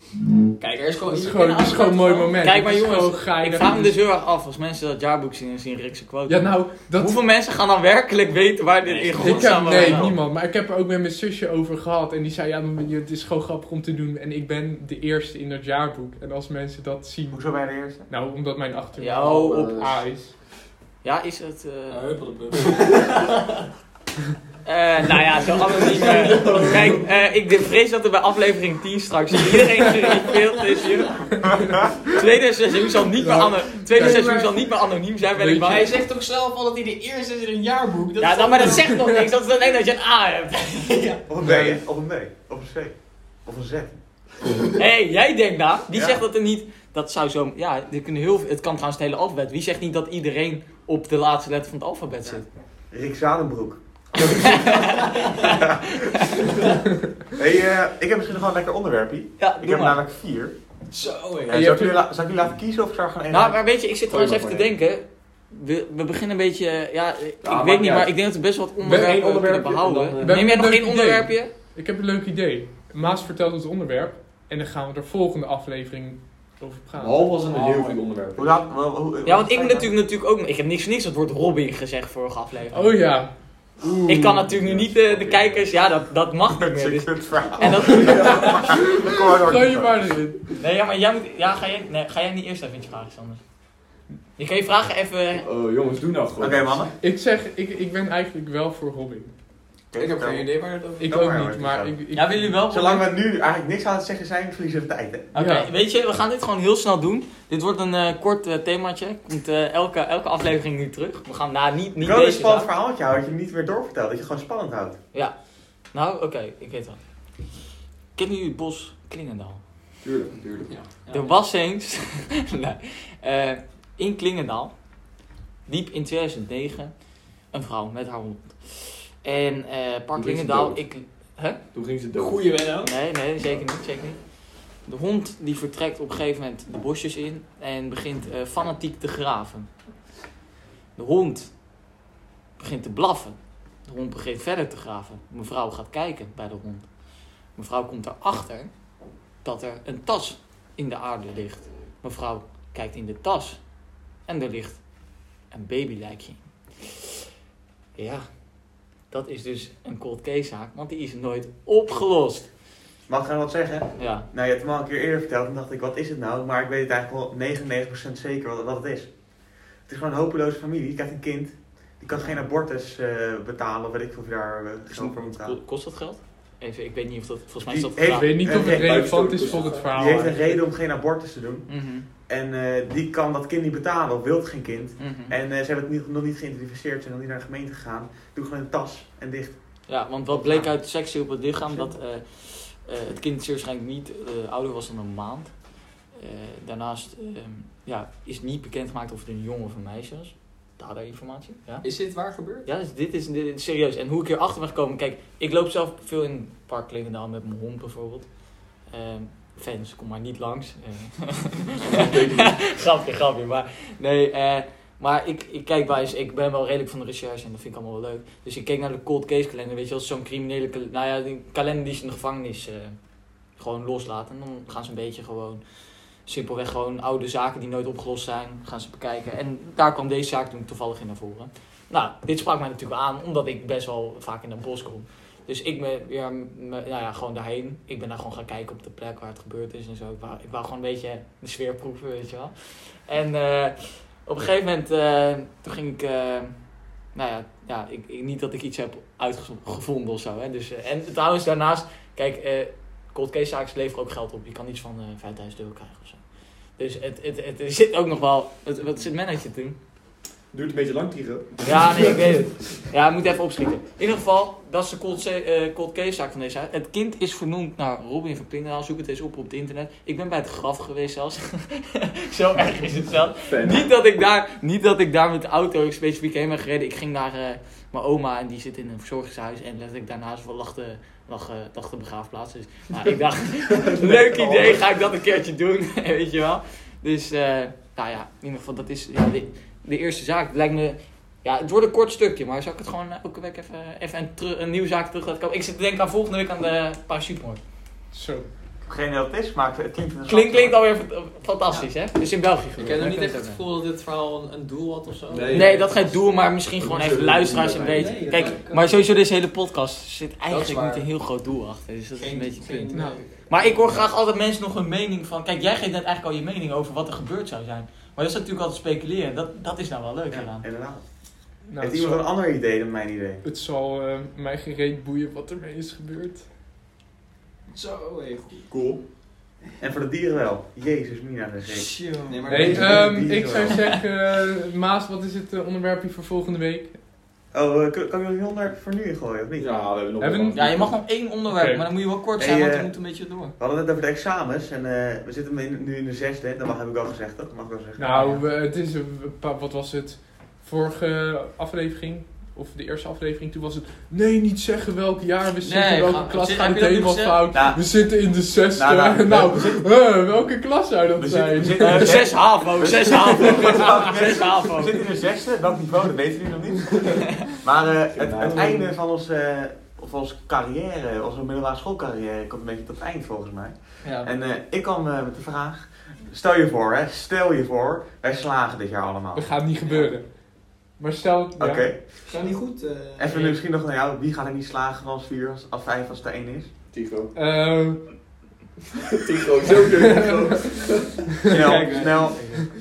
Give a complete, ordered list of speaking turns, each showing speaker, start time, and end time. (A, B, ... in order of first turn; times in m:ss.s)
0:00.6-0:02.4 A
0:01.2-0:04.0 B
0:02.4-0:10.1 C
0:06.3-0:07.2 B
0:08.9-0:09.4 A
0:09.0-0:10.2 D
0:09.2-0:20.4 B
0:17.3-0:18.1 D
0:19.0-0:19.8 C
0:19.3-0:20.0 E
0:21.0-0:22.2 C
0:21.9-0:23.5 A
0:24.6-0:31.3 C
0:25.5-0:26.7 A
0:25.7-0:27.0 E
0:31.4-0:31.8 B
0:32.1-0:35.9 C
0:33.2-0:34.4 B
0:34.0-0:34.6 A
0:35.4-0:35.8 B
0:35.6-0:39.1 A
0:38.2-0:41.0 C
0:40.9-0:41.2 A
0:41.3-0:44.0 D
0:41.4-0:41.8 B
0:44.8-0:52.4 C
0:45.9-0:46.2 D
0:52.9-0:54.7 D
0:54.2-0:56.4 C
0:54.8-0:55.6 A
0:55.5-0:56.3 D
0:57.4-1:00.6 D
0:59.4-1:00.0 C
1:00.9-1:01.7 A
1:01.5-1:03.6 D
1:01.5-1:02.0 B
1:03.3-1:11.5 C
1:04.1-1:04.7 E
1:07.4-1:08.2 E
1:08.8-1:10.5 E
1:08.8-1:09.2 B
1:10.2-1:17.2 B
1:17.0-1:18.6 E
1:17.5-1:18.0 A
1:18.4-1:19.9 D
1:19.2-1:23.0 C
1:22.7-1:24.4 B
1:24.1-1:28.8 C
1:24.4-1:25.8 E
1:26.5-1:30.1 D
1:28.0-1:28.5 E
1:28.1-1:30.6 B
1:30.6-1:33.4 C
1:34.4-1:35.5 C
1:35.4-1:36.9 E
1:36.4-1:36.9 D
1:37.0-1:39.3 B
1:39.9-1:40.5 D
1:40.0-1:41.2 A
1:41.0-1:42.6 B
1:41.0-1:42.0 D
1:42.1-1:43.0 C
1:42.7-1:45.3 D
1:45.3-1:52.7 C
1:45.4-1:45.7 B
1:52.0-1:55.0 D
1:55.9-1:57.0 C
1:58.2-1:59.6 C
2:00.0-2:00.9 E
2:00.8-2:01.4 A
2:00.9-2:05.0 C
2:05.7-2:06.9 C
2:07.5-2:11.6 C
2:10.2-2:11.0 E
2:11.7-2:12.6 E
2:12.2-2:12.9 A
2:12.8-2:19.7 C
2:21.0-2:21.5 C
2:22.6-2:26.9 C
2:27.6-2:28.7 C
2:29.4-2:33.7 C
2:34.2-2:34.9 C
2:35.5-2:37.1 C
2:38.0-2:38.4 C
2:39.1-2:42.5 C
2:43.1-2:55.6 D
2:44.0-2:44.3 C
2:54.9-2:58.4 C
2:57.7-2:59.2 D
2:58.0-3:00.6 B
2:58.5-3:00.0 E
2:59.9-3:09.6 D
3:01.7-3:02.1 C
3:05.0-3:05.3 C
3:09.9-3:15.6 C
3:10.4-3:10.7 A
3:11.7-3:12.0 A
3:16.1-3:21.9 C
3:21.8-3:22.7 A
3:22.6-3:28.3 C
3:28.9-3:43.0 C
3:31.8-3:32.8 E
3:43.6-3:45.6 C
3:46.3-4:06.6 C
4:07.1-4:16.2 C
4:16.8-4:19.8 C
4:20.5-4:22.4 E
4:21.6-4:57.6 C
4:33.5-4:33.9 E
4:43.6-4:44.8 E
4:58.1-4:58.5 B
4:58.8-5:00.8 D
5:00.3-5:03.6 C
5:02.8-5:05.8 A
5:05.3-5:06.0 E
5:05.5-5:20.6 C
5:06.8-5:08.6 E
5:07.5-5:09.1 A
5:10.5-5:11.0 A
5:12.2-5:13.9 A
5:12.9-5:13.2 B
5:20.3-5:23.4 D
5:21.7-5:22.2 B
5:23.4-5:26.5 B
5:27.7-5:28.7 A
5:28.7-5:29.0 E
5:29.8-5:33.9 D
5:31.9-5:33.2 A
5:32.2-5:32.7 C
5:32.5-5:37.0 B
5:37.5-5:39.9 D
5:39.6-5:41.0 E
5:40.2-5:40.8 B
5:40.5-5:43.5 C
5:41.5-5:41.8 B
5:42.4-5:42.9 D
5:43.6-5:48.4 D
5:48.0-6:02.2 B
5:48.2-5:48.4 C
5:55.6-5:57.4 C
5:57.5-5:59.8 D
6:01.2-6:19.6 D
6:01.8-6:05.0 C
6:08.1-6:08.9 E
6:14.0-6:14.3 C
6:19.4-6:21.9 B
6:21.6-6:22.0 D
6:22.3-6:23.5 A
6:23.2-6:26.7 D
6:26.9-6:27.3 E
6:27.4-6:28.4 B
6:29.2-6:31.2 E
6:30.0-6:30.6 B
6:31.4-6:32.6 D
6:31.5-6:32.6 C
6:31.6-6:32.4 A